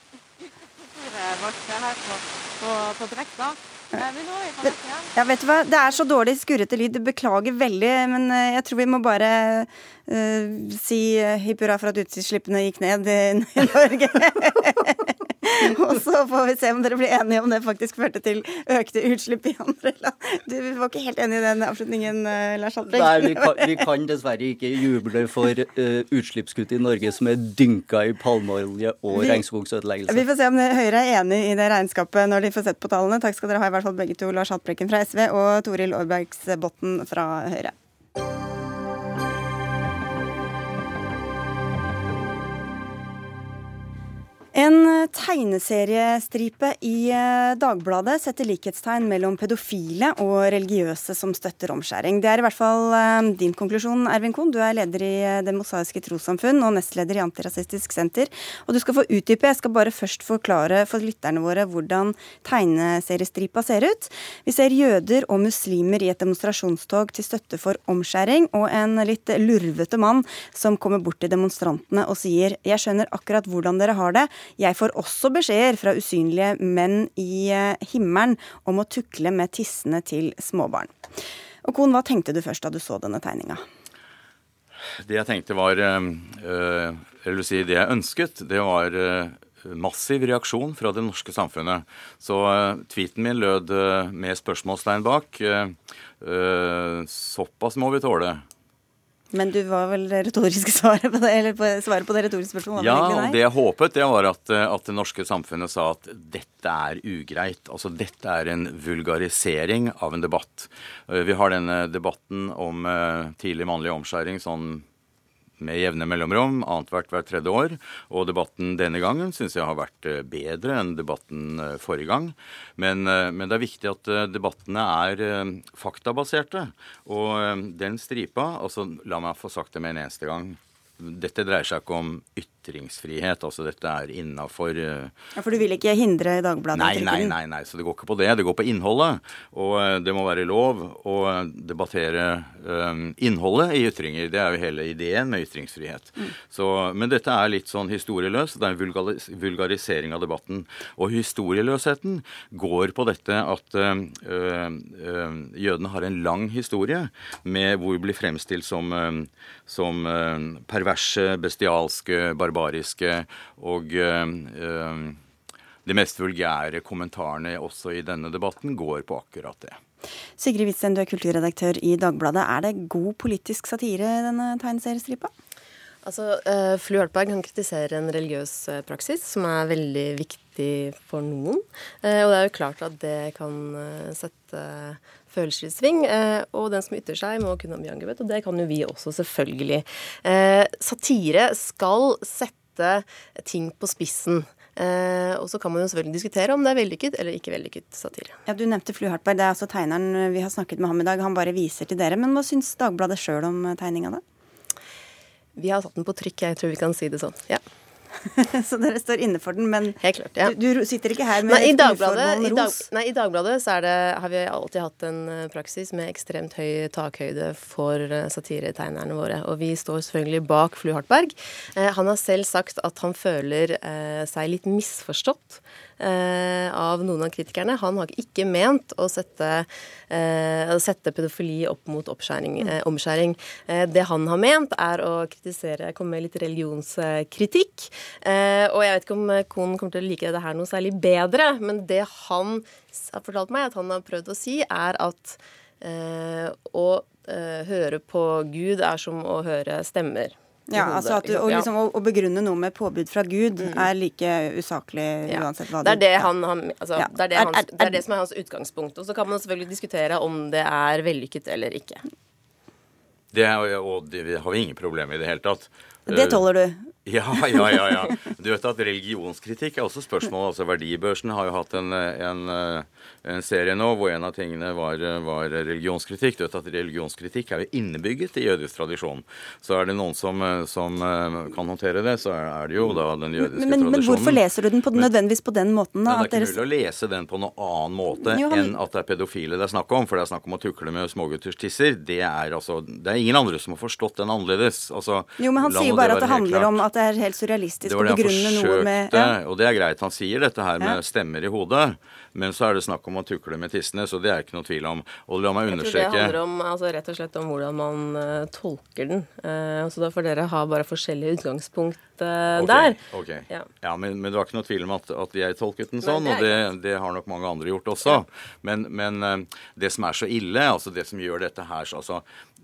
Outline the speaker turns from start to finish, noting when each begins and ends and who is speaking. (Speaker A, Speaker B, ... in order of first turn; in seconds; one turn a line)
Speaker A: 0.8-5.1
Speaker B: 4.6-23.8
Speaker C: 22.9-30.3
Speaker B: 29.1-29.4
Speaker B: 30.1-37.7
Speaker B: 44.5-81.0
Speaker B: 81.6-83.6
Speaker D: 85.0-98.4
Speaker B: 99.3-103.4
Speaker D: 102.8-114.8
Speaker D: 115.6-135.2
Speaker B: 135.4-137.3
Speaker D: 136.7-165.2
Speaker D: 165.8-169.8
Speaker B: 170.4-175.3
Speaker E: 176.0-198.4
Speaker B: 198.5-204.2
Speaker E: 205.6-207.6
Speaker B: 208.4-212.8
Speaker E: 210.0-210.6
Speaker E: 211.4-251.7
Speaker B: 250.7-256.3
Speaker E: 253.6-253.9
Speaker E: 255.3-262.0
Speaker B: 257.0-258.0
Speaker D: 263.3-266.5
Speaker B: 266.1-267.9
Speaker D: 267.1-285.1
Speaker B: 282.9-286.6
Speaker D: 286.1-296.8
Speaker B: 288.2-288.7
Speaker B: 295.4-299.3
Speaker D: 297.9-306.4
Speaker E: 305.7-313.7
Speaker D: 312.6-322.3
Speaker E: 316.0-316.6